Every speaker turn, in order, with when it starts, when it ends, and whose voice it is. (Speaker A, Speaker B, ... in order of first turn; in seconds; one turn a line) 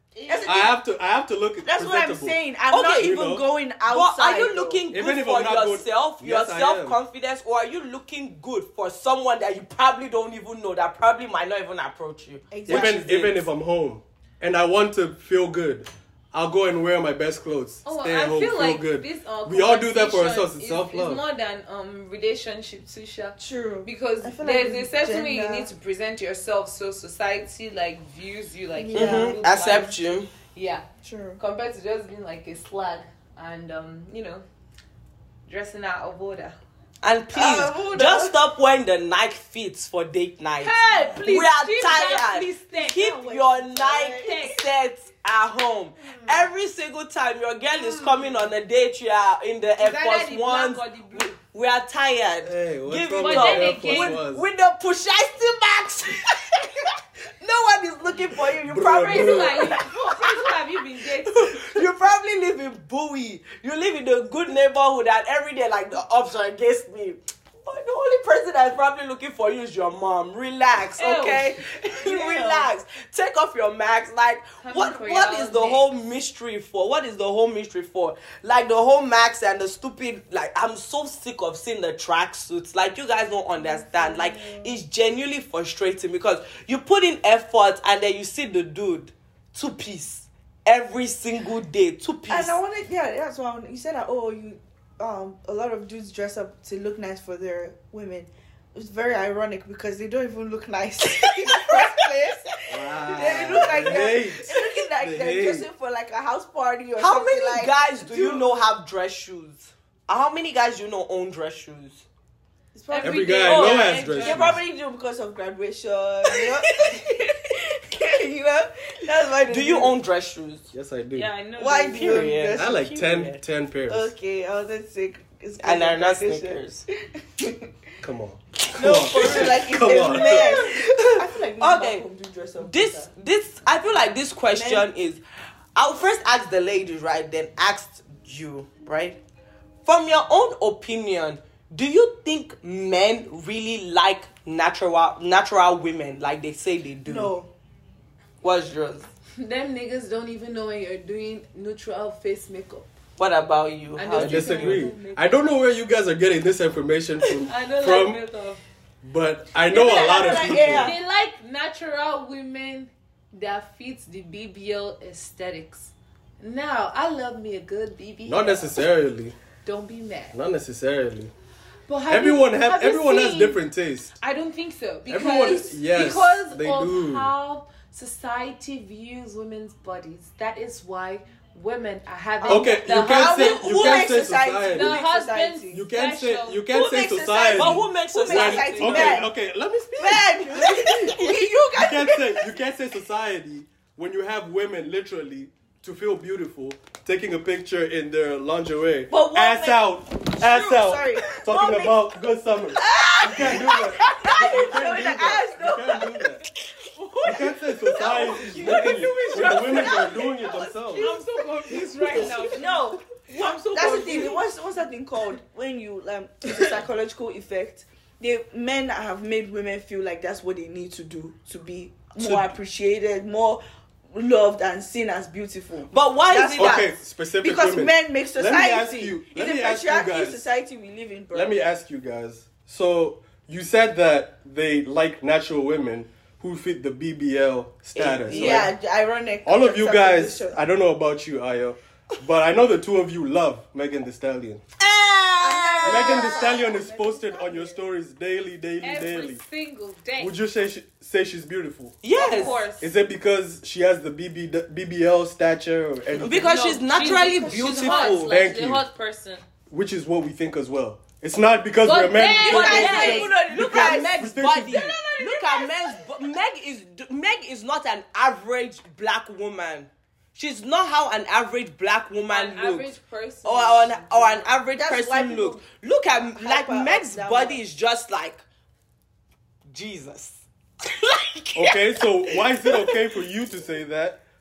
Speaker A: 0.2-0.6
Speaker B: 0.3-0.8
Speaker C: 0.5-2.4
Speaker B: 1.6-4.8
Speaker D: 2.7-3.2
Speaker C: 3.0-3.4
Speaker D: 3.9-13.5
Speaker C: 4.9-7.0
Speaker B: 12.5-12.9
Speaker C: 12.7-21.2
Speaker A: 17.9-30.0
Speaker B: 23.4-25.7
Speaker B: 28.7-29.4
Speaker D: 28.9-30.3
Speaker A: 30.5-30.9
Speaker B: 31.0-31.4
Speaker A: 31.4-34.4
Speaker A: 35.5-36.6
Speaker D: 37.0-56.9
Speaker B: 37.3-38.4
Speaker A: 40.6-43.1
Speaker B: 42.9-44.5
Speaker A: 44.0-44.6
Speaker A: 49.8-51.4
Speaker C: 52.4-54.5
Speaker A: 53.2-54.2
Speaker D: 57.4-59.7
Speaker C: 58.6-59.8
Speaker A: 58.8-61.5
Speaker B: 59.8-60.3
Speaker D: 61.2-92.6
Speaker A: 70.9-71.6
Speaker B: 71.9-72.7
Speaker A: 74.6-75.9
Speaker B: 83.6-84.7
Speaker B: 92.3-108.5
Speaker D: 101.5-101.9
Speaker C: 102.7-105.7
Speaker D: 103.3-104.0
Speaker D: 107.0-112.1
Speaker B: 112.7-119.9
Speaker A: 112.9-114.6
Speaker C: 113.0-114.6
Speaker D: 113.7-114.0
Speaker D: 116.3-117.1
Speaker D: 119.5-120.7
Speaker C: 120.7-121.3
Speaker A: 121.2-122.3
Speaker B: 121.6-122.8
Speaker D: 121.9-123.4
Speaker C: 122.5-124.1
Speaker B: 123.9-127.7
Speaker D: 125.6-126.8
Speaker C: 128.0-130.7
Speaker D: 128.7-132.1
Speaker B: 128.8-133.1
Speaker D: 132.6-135.2
Speaker B: 134.5-134.9
Speaker D: 135.8-139.2
Speaker D: 139.8-147.3
Speaker B: 147.1-147.5
Speaker D: 148.4-149.1
Speaker A: 149.4-152.9
Speaker D: 153.2-154.8
Speaker A: 154.0-155.0
Speaker C: 154.2-158.2
Speaker B: 154.5-155.4
Speaker A: 157.5-158.6
Speaker C: 159.0-160.9
Speaker B: 159.7-161.0
Speaker A: 160.0-168.7
Speaker C: 168.3-169.4
Speaker A: 169.7-170.4
Speaker C: 170.3-171.3
Speaker A: 171.9-173.6
Speaker C: 172.1-174.2
Speaker A: 174.2-186.6
Speaker C: 175.1-177.3
Speaker B: 182.4-185.8
Speaker C: 182.5-185.0
Speaker C: 185.7-191.2
Speaker B: 186.7-189.3
Speaker D: 187.5-189.2
Speaker B: 190.0-192.5
Speaker D: 190.6-191.4
Speaker C: 191.8-206.4
Speaker B: 199.1-202.0
Speaker B: 202.8-206.3
Speaker D: 203.2-204.8
Speaker D: 207.1-210.2
Speaker C: 207.2-211.1
Speaker B: 208.0-223.6
Speaker A: 208.6-210.1
Speaker A: 210.9-214.4
Speaker D: 212.2-212.5
Speaker D: 213.3-214.4
Speaker D: 222.2-222.5
Speaker B: 224.1-231.5
Speaker D: 225.9-226.9
Speaker C: 226.6-230.5
Speaker C: 231.3-238.7
Speaker D: 237.9-238.7
Speaker B: 238.0-240.6
Speaker C: 239.4-244.6
Speaker D: 244.8-246.6
Speaker B: 245.4-247.8
Speaker C: 245.8-249.4
Speaker A: 248.8-250.3
Speaker C: 250.2-252.0
Speaker D: 252.0-252.6
Speaker A: 252.1-252.9
Speaker C: 252.8-256.5
Speaker D: 256.2-258.3
Speaker A: 256.3-259.4
Speaker B: 256.9-258.2
Speaker C: 258.3-258.8
Speaker C: 259.7-264.9
Speaker A: 261.9-263.3
Speaker D: 262.4-272.9
Speaker B: 262.4-266.1
Speaker A: 272.3-274.6
Speaker D: 273.4-278.4
Speaker B: 274.8-275.6
Speaker B: 276.1-277.6
Speaker D: 279.7-283.0
Speaker C: 281.6-284.2